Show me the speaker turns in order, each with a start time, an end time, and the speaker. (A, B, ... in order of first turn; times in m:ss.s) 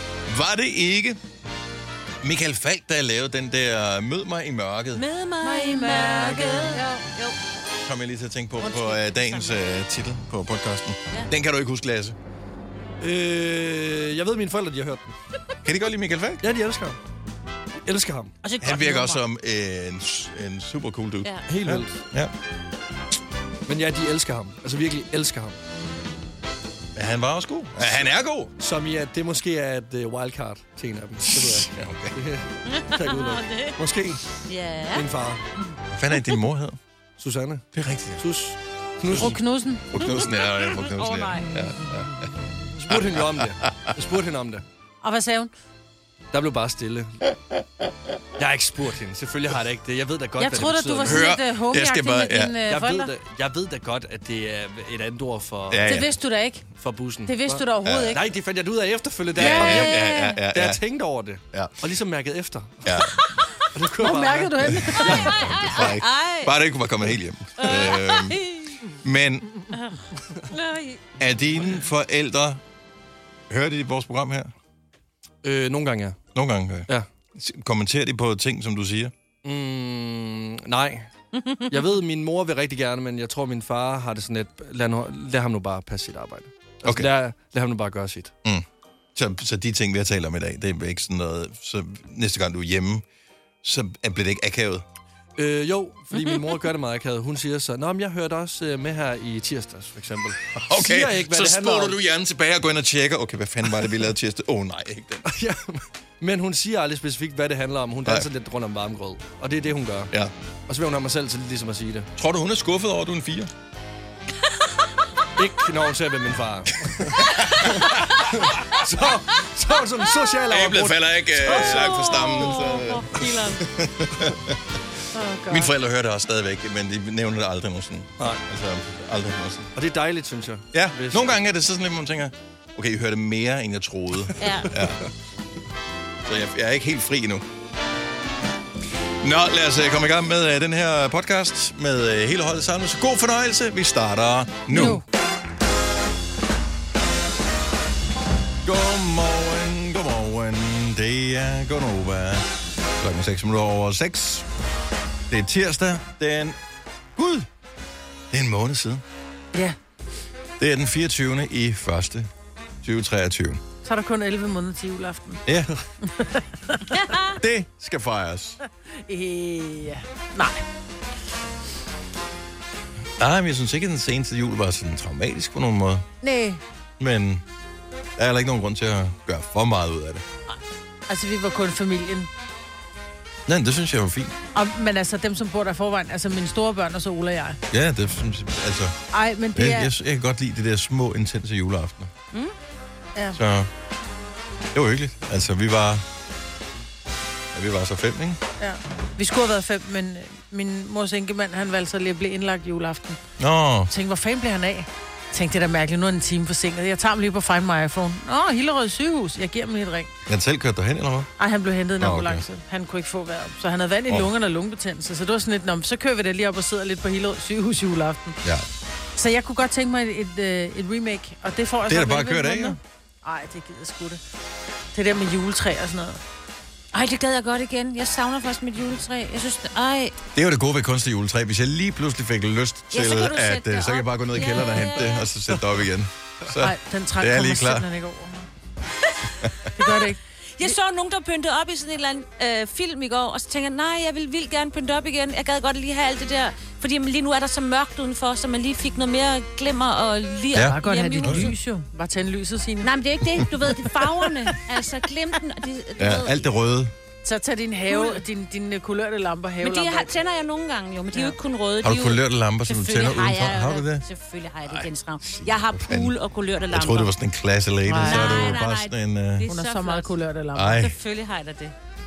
0:00.3-0:01.2 A
0:02.2-0:05.0 A
0:04.9-0:07.4 B
0:05.4-0:06.9 C
0:07.8-0:12.2 A
0:08.6-0:09.5 B
0:13.0-0:15.2 D
0:15.6-0:16.5 A
0:16.4-0:17.0 D
0:17.8-0:18.3 D
0:18.4-0:19.2 B
0:18.6-0:22.3 A
0:21.5-0:22.0 D
0:23.7-0:25.6 D
0:27.0-0:28.5 A
0:28.6-0:34.2 D
0:31.2-0:32.2 A
0:32.7-0:33.8 B
0:34.5-0:35.1 B
0:34.9-0:35.4 D
0:35.9-0:36.8 A
0:37.2-0:39.4 D
0:37.7-0:38.2 A
0:39.1-0:39.4 A
0:39.1-0:39.9 C
0:39.9-0:42.3 A
0:40.1-0:41.5 B
0:42.8-0:44.6 D
0:42.8-0:43.9 A
0:45.0-0:45.5 C
0:46.3-0:47.2 D
0:48.4-0:51.3 D
0:50.4-0:53.1 C
0:51.0-0:52.6 A
0:52.6-0:55.8 D
0:55.7-0:56.1 A
0:55.8-0:56.7 C
0:56.8-1:02.8 D
0:57.2-0:58.2 C
0:57.8-0:58.2 A
0:59.4-1:00.8 A
0:59.4-1:00.4 C
1:02.8-1:03.2 A
1:03.7-1:05.9 D
1:04.0-1:05.3 C
1:04.8-1:08.4 A
1:05.1-1:06.5 B
1:07.6-1:08.8 B
1:08.9-1:09.5 A
1:10.5-1:11.0 B
1:11.2-1:12.6 A
1:13.5-1:14.5 A
1:15.4-1:16.2 D
1:16.4-1:19.1 A
1:19.4-1:21.1 D
1:21.4-1:21.7 B
1:21.7-1:28.3 D
1:26.8-1:27.1 A
1:28.4-1:33.0 A
1:33.6-1:34.8 A
1:35.4-1:42.0 D
1:40.6-1:45.3 A
1:45.3-1:50.1 D
1:50.7-1:52.1 D
1:52.2-1:53.5 A
1:55.4-1:57.2 D
1:57.2-1:57.6 A
1:58.3-2:01.5 D
2:00.5-2:04.6 A
2:01.5-2:03.6 B
2:05.1-2:05.7 C
2:05.5-2:09.7 A
2:09.8-2:11.4 D
2:10.7-2:15.0 A
2:14.4-2:14.7 B
2:16.3-2:17.4 A
2:19.2-2:25.0 A
2:24.7-2:25.0 C
2:28.6-2:32.5 A
2:33.0-2:34.5 A
2:35.3-2:36.6 A
2:37.2-2:37.5 A
2:38.3-2:39.0 A
2:40.6-2:42.3 A
2:42.8-2:43.6 A
2:43.8-2:45.4 C
2:45.5-2:45.7 A
2:46.0-2:46.9 C
2:47.0-2:47.4 B
2:47.4-2:48.6 A
2:49.1-2:50.6 C
2:53.2-2:56.0 A
2:56.2-2:56.6 C
2:57.0-2:57.4 A
2:58.2-3:00.2 A
3:01.1-3:02.3 C
3:03.5-3:04.4 A
3:04.6-3:07.6 C
3:07.7-3:09.0 A
3:09.1-3:09.9 C
3:09.6-3:12.1 A
3:13.4-3:13.7 A
3:14.7-3:16.0 A
3:17.5-3:18.4 A
3:18.6-3:23.2 C
3:23.4-3:23.9 A
3:23.9-3:30.1 C
3:30.3-3:31.3 A
3:31.4-3:38.4 C
3:32.0-3:32.4 A
3:39.2-3:44.2 C
3:41.9-3:42.8 A
3:44.9-3:46.2 C
3:46.9-3:50.1 B
3:50.4-3:57.9 A
3:52.9-3:55.3 B
3:56.6-3:58.5 C
3:59.8-4:00.7 C
3:59.8-4:00.1 B
4:00.6-4:11.6 B
4:10.5-4:11.5 A
4:10.6-4:12.9 C
4:12.8-4:16.4 B
4:16.0-4:16.9 A
4:17.2-4:20.1 C
4:17.9-4:18.2 B
4:19.6-4:27.1 B
4:21.8-4:24.0 A
4:25.4-4:26.1 A
4:26.7-4:29.5 A
4:27.8-4:28.6 C
4:28.0-4:30.2 B
4:29.5-4:30.9 C
4:30.6-4:31.0 A
4:30.8-4:31.7 B